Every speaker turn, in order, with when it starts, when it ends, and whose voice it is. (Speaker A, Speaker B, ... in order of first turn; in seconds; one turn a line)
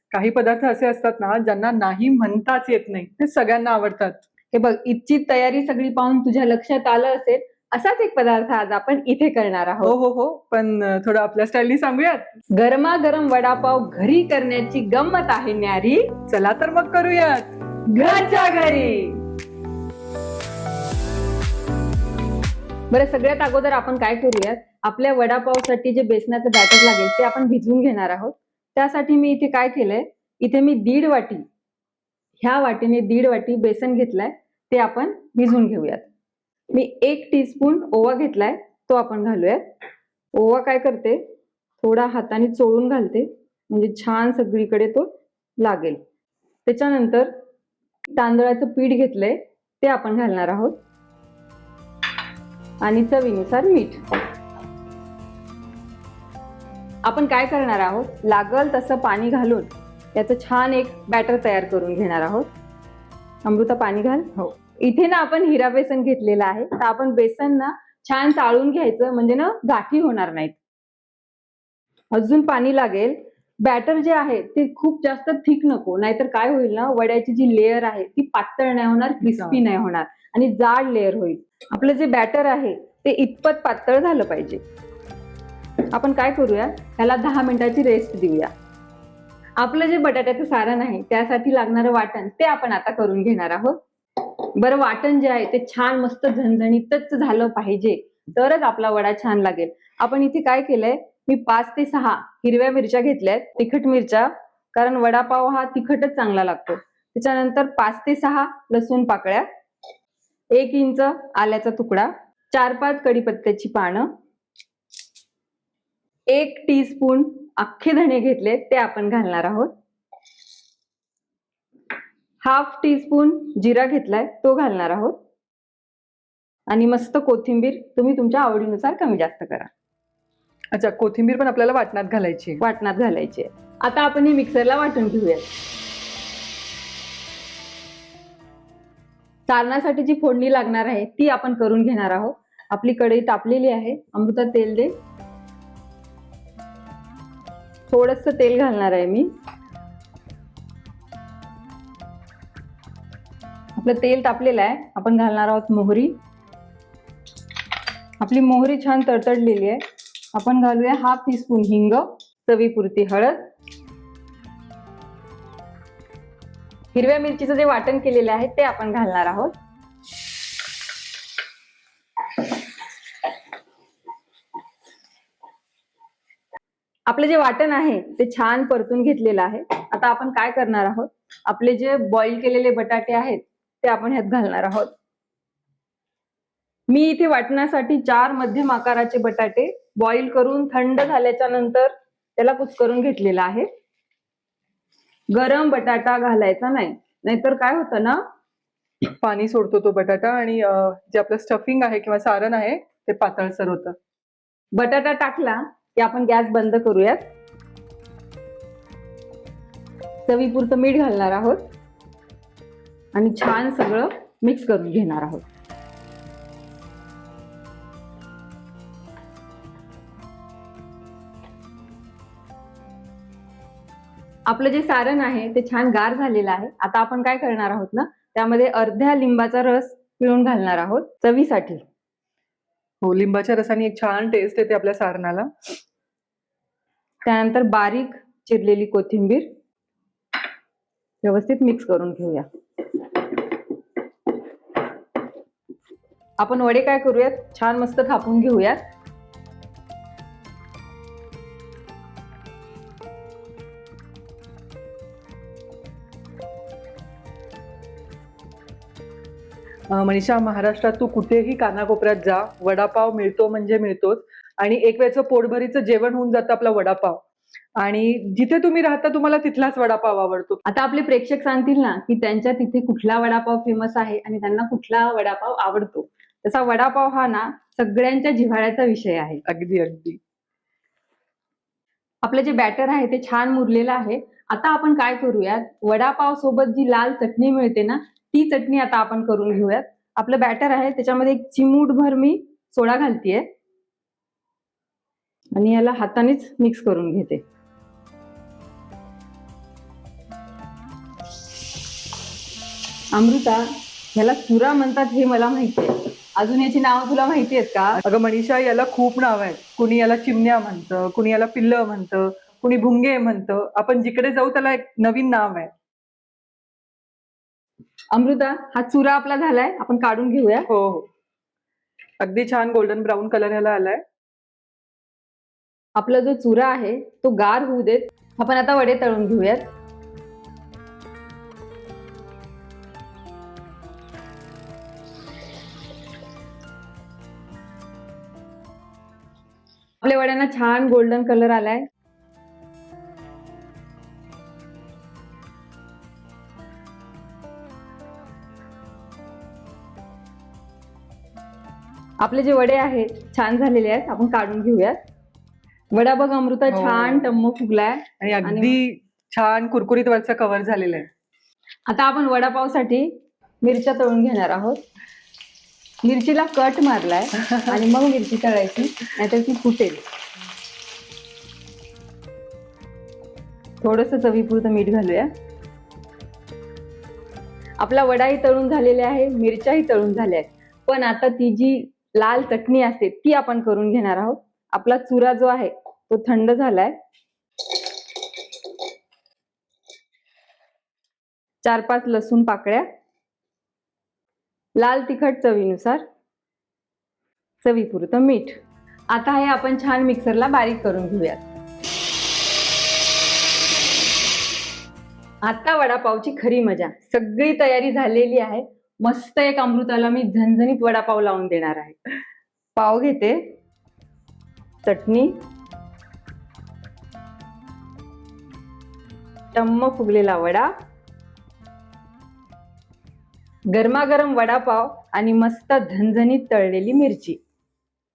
Speaker A: 0.1-4.2
Speaker B: 4.5-9.9
Speaker A: 9.8-12.3
Speaker B: 12.6-16.1
Speaker A: 16.3-17.6
Speaker B: 17.9-19.2
Speaker B: 22.9-31.5
Speaker B: 32.4-36.1
Speaker B: 36.7-39.6
Speaker B: 40.4-41.2
Speaker B: 41.8-46.0
Speaker B: 46.7-47.3
Speaker B: 48.2-50.8
Speaker B: 52.8-54.0
Speaker B: 57.0-62.5
Speaker B: 63.5-70.6
Speaker B: 72.1-84.6
Speaker A: 79.2-79.6
Speaker B: 85.9-88.5
Speaker B: 89.6-109.5
Speaker B: 110.5-114.1
Speaker B: 116.3-119.7
Speaker B: 122.4-125.2
Speaker B: 126.7-129.7
Speaker A: 130.7-132.6
Speaker B: 132.6-135.5
Speaker B: 139.5-144.9
Speaker B: 147.9-149.3
Speaker B: 153.8-156.2
Speaker B: 158.2-159.8
Speaker B: 160.3-163.4
Speaker B: 166.9-169.5
Speaker B: 177.1-184.9
Speaker B: 186.9-193.7
Speaker B: 195.3-198.2
Speaker A: 199.2-204.0
Speaker B: 204.8-207.3
Speaker B: 210.3-211.7
Speaker B: 213.1-215.4
Speaker B: 224.5-231.8
Speaker A: 233.0-235.7
Speaker B: 237.2-239.5
Speaker B: 241.2-243.6
Speaker B: 246.4-248.8
Speaker A: 259.9-267.2
Speaker A: 267.8-270.6
Speaker B: 270.7-279.4
Speaker A: 279.5-280.2
Speaker B: 282.2-293.5
Speaker B: 295.6-297.4
Speaker B: 303.1-308.0
Speaker A: 308.0-315.7
Speaker B: 318.1-320.7
Speaker A: 320.7-321.1
Speaker A: 322.2-324.0
Speaker B: 326.0-329.7
Speaker B: 340.0-341.9
Speaker B: 352.2-355.0
Speaker B: 355.9-358.8
Speaker A: 356.7-357.3
Speaker A: 358.2-361.1
Speaker B: 361.9-364.8
Speaker B: 366.0-370.0
Speaker B: 373.8-375.3
Speaker B: 377.8-386.9
Speaker B: 391.6-392.9
Speaker B: 394.8-396.0
Speaker B: 397.6-398.6
Speaker B: 399.1-401.4
Speaker B: 405.4-412.0
Speaker B: 412.8-413.6
Speaker B: 414.9-415.4
Speaker B: 419.5-420.7
Speaker B: 423.7-427.4